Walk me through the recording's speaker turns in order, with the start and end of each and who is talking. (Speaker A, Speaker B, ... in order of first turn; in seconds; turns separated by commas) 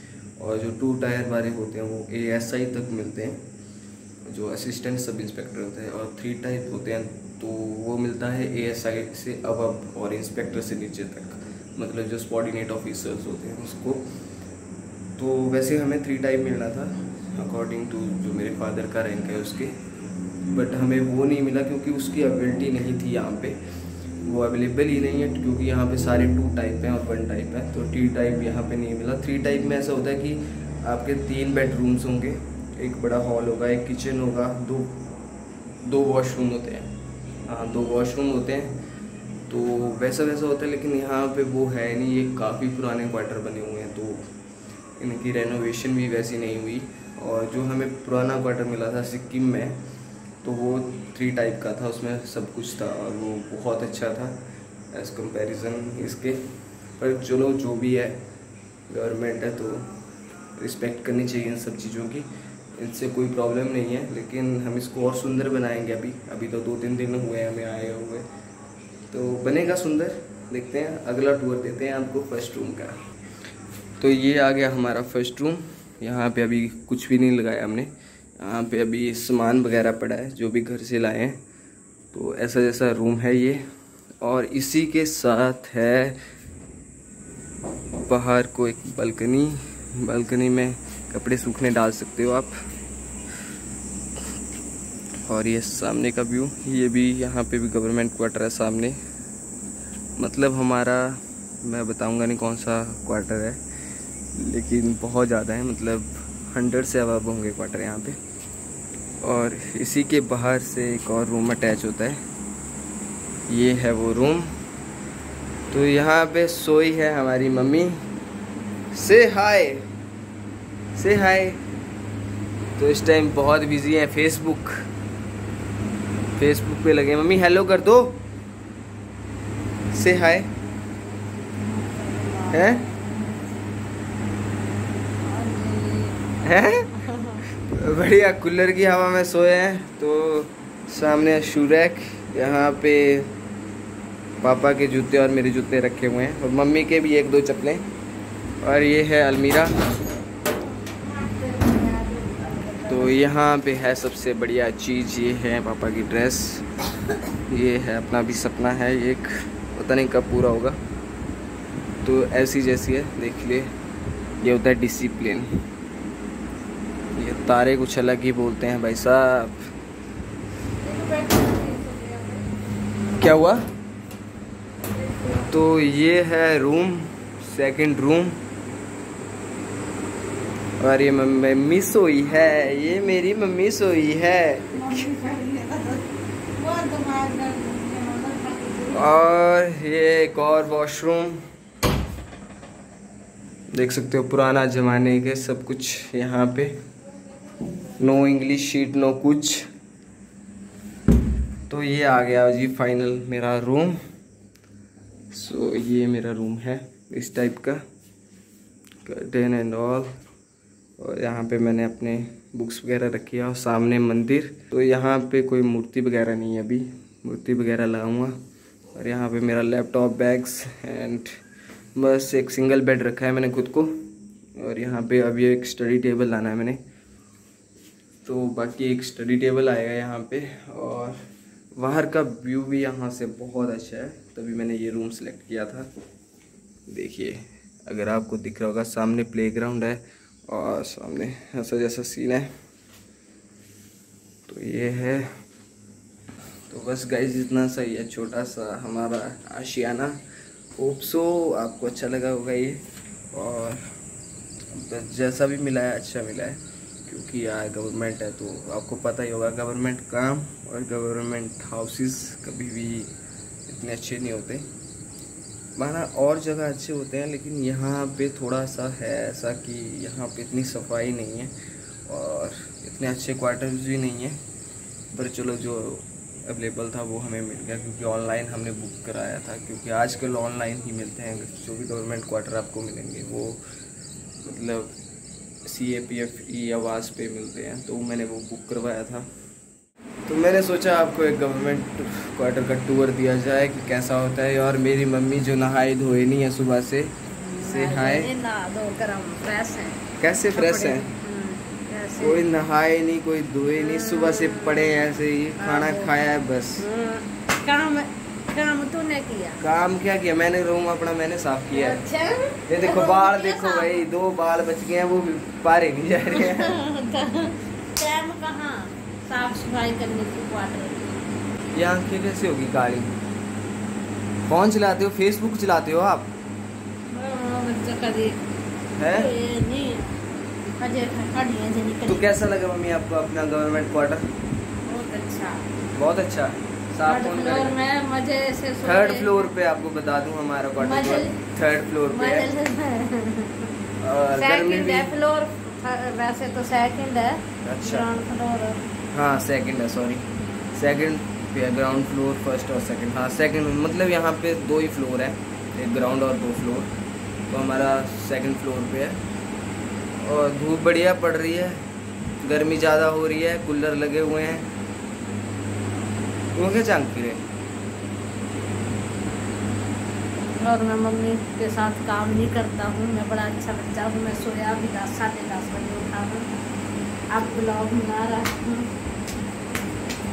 Speaker A: 0.4-3.4, Speaker A: 4.3-14.0, Speaker A: 15.2-19.7, Speaker A: 20.5-23.6, Speaker A: 24.2-35.0, Speaker A: 35.8-36.9, Speaker A: 37.5-38.8, Speaker A: 39.5-44.2, Speaker A: 45.0-49.8, Speaker A: 50.4-54.4, Speaker A: 54.9-56.4, Speaker A: 57.0-58.2, Speaker A: 58.9-59.9, Speaker A: 60.6-68.3, Speaker A: 69.1-73.0, Speaker A: 74.0-81.4, Speaker A: 82.1-83.6, Speaker A: 84.2-86.2, Speaker A: 88.1-92.5, Speaker A: 95.3-99.0, Speaker A: 100.2-103.6, Speaker A: 104.4-108.2, Speaker A: 109.2-112.2, Speaker A: 113.5-114.5, Speaker A: 115.7-118.0, Speaker A: 118.9-119.8, Speaker A: 121.0-121.6, Speaker A: 122.8-124.8, Speaker A: 126.4-128.2, Speaker A: 129.9-130.5, Speaker B: 131.7-133.0, Speaker A: 132.5-132.8, Speaker B: 135.2-136.2, Speaker A: 136.4-136.9, Speaker B: 136.9-137.4, Speaker A: 137.6-143.4, Speaker A: 144.4-147.8, Speaker A: 148.6-149.7, Speaker B: 150.9-153.2, Speaker A: 152.9-156.7, Speaker A: 157.5-160.8, Speaker A: 162.0-163.7, Speaker A: 164.4-165.5, Speaker A: 167.2-169.6, Speaker B: 170.8-172.4, Speaker A: 173.2-173.6, Speaker A: 175.5-178.4, Speaker A: 180.8-185.1, Speaker B: 184.8-186.0, Speaker B: 186.6-189.1, Speaker A: 188.9-191.4, Speaker A: 193.7-196.8, Speaker A: 197.9-199.7, Speaker A: 201.7-204.0, Speaker A: 205.3-207.8, Speaker A: 209.1-210.1, Speaker A: 211.0-218.3, Speaker A: 218.9-221.3, Speaker A: 222.0-226.8, Speaker A: 228.2-231.2, Speaker A: 231.8-235.9, Speaker A: 236.9-242.5, Speaker A: 244.5-245.3, Speaker A: 246.7-250.2, Speaker A: 250.8-253.8, Speaker A: 254.7-263.1, Speaker A: 263.7-264.7, Speaker A: 265.8-271.5, Speaker A: 272.1-274.4, Speaker A: 275.1-283.6, Speaker A: 284.4-284.9, Speaker A: 285.6-289.3, Speaker A: 290.3-298.3, Speaker B: 297.3-302.5, Speaker A: 300.2-301.1, Speaker A: 302.2-306.8, Speaker B: 303.7-306.1, Speaker B: 306.8-309.6, Speaker A: 309.6-312.0, Speaker B: 311.7-314.0, Speaker A: 312.7-316.8, Speaker B: 316.3-321.1, Speaker A: 321.7-323.1, Speaker A: 324.4-326.3, Speaker B: 327.1-328.4, Speaker A: 329.0-329.3, Speaker B: 329.0-330.2, Speaker B: 330.8-332.2, Speaker A: 332.1-334.2, Speaker B: 334.9-335.6, Speaker A: 335.9-337.8, Speaker B: 337.1-339.5, Speaker A: 338.8-342.5, Speaker B: 340.8-341.3, Speaker B: 342.1-343.7, Speaker A: 344.0-345.1, Speaker B: 344.3-348.8, Speaker A: 347.6-348.1, Speaker A: 349.1-356.9, Speaker A: 357.5-359.2, Speaker A: 360.2-361.8, Speaker A: 362.4-364.7, Speaker A: 366.6-367.4, Speaker B: 370.6-376.5, Speaker B: 377.3-378.9